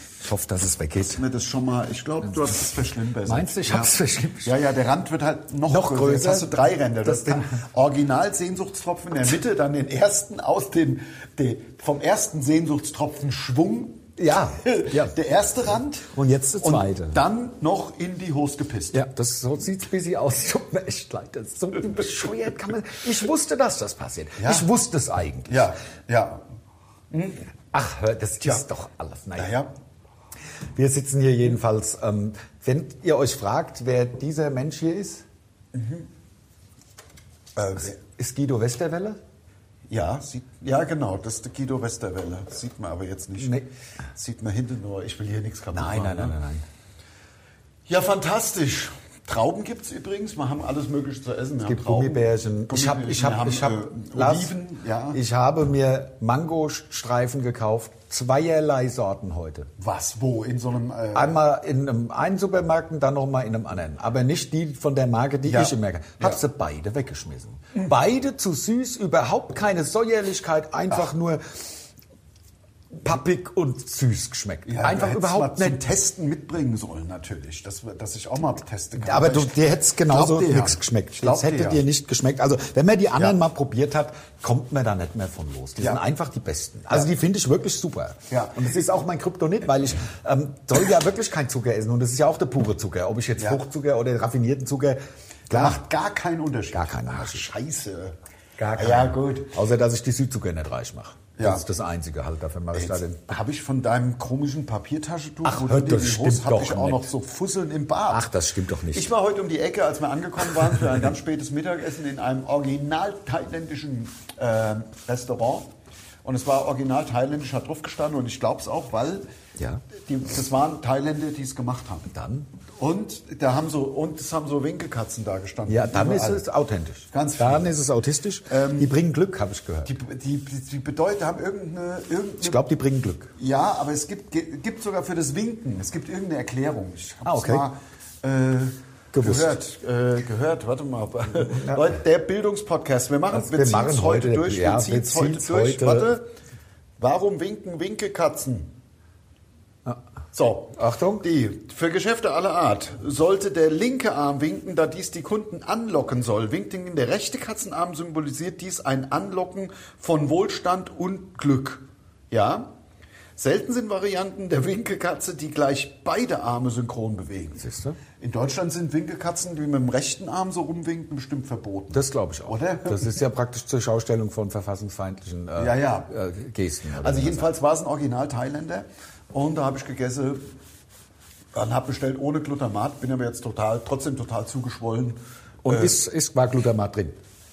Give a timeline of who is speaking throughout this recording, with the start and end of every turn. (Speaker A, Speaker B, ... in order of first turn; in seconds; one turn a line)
Speaker A: 0.2-1.2
Speaker B: 1.2-14.1
Speaker A: 3.2-4.5
Speaker A: 5.7-6.5
Speaker A: 7.0-7.6
Speaker A: 14.2-15.2
Speaker B: 14.6-19.0
Speaker A: 16.1-17.2
Speaker A: 18.9-25.7
Speaker B: 24.4-24.7
Speaker B: 25.5-26.4
Speaker B: 27.1-27.4
Speaker A: 27.7-29.5
Speaker B: 29.4-29.7
Speaker A: 30.7-35.2
Speaker B: 35.7-36.1
Speaker B: 37.5-38.0
Speaker A: 37.8-39.2
Speaker B: 39.9-43.6
Speaker A: 43.4-43.7
Speaker B: 44.1-46.4
Speaker A: 45.7-46.6
Speaker B: 47.9-55.2
Speaker A: 51.6-54.5
Speaker A: 55.1-59.7
Speaker B: 59.8-61.4
Speaker A: 61.1-71.6
Speaker B: 65.5-66.4
Speaker A: 73.0-75.8
Speaker B: 74.7-81.8
Speaker A: 79.0-95.8
Speaker B: 88.3-88.6
Speaker B: 95.5-98.1
Speaker A: 96.7-97.4
Speaker A: 98.6-103.4
Speaker B: 98.7-99.5
Speaker B: 101.4-101.6
Speaker B: 102.7-108.2
Speaker A: 105.4-107.1
Speaker A: 108.1-109.1
Speaker B: 108.9-115.7
Speaker B: 116.2-119.2
Speaker A: 119.6-119.8
Speaker B: 120.0-122.1
Speaker A: 122.1-122.5
Speaker B: 122.8-126.4
Speaker A: 125.7-129.9
Speaker B: 127.1-127.7
Speaker B: 128.5-128.9
Speaker B: 129.8-132.6
Speaker A: 132.4-133.3
Speaker B: 133.4-146.2
Speaker A: 137.2-137.7
Speaker A: 139.1-139.5
Speaker A: 141.5-141.9
Speaker A: 143.3-146.1
Speaker B: 147.0-148.7
Speaker B: 150.3-162.7
Speaker A: 150.7-151.2
Speaker B: 163.4-167.6
Speaker A: 167.6-168.0
Speaker B: 168.2-173.2
Speaker A: 171.9-177.5
Speaker B: 175.6-176.1
Speaker B: 177.0-180.4
Speaker B: 181.5-186.0
Speaker A: 185.6-187.2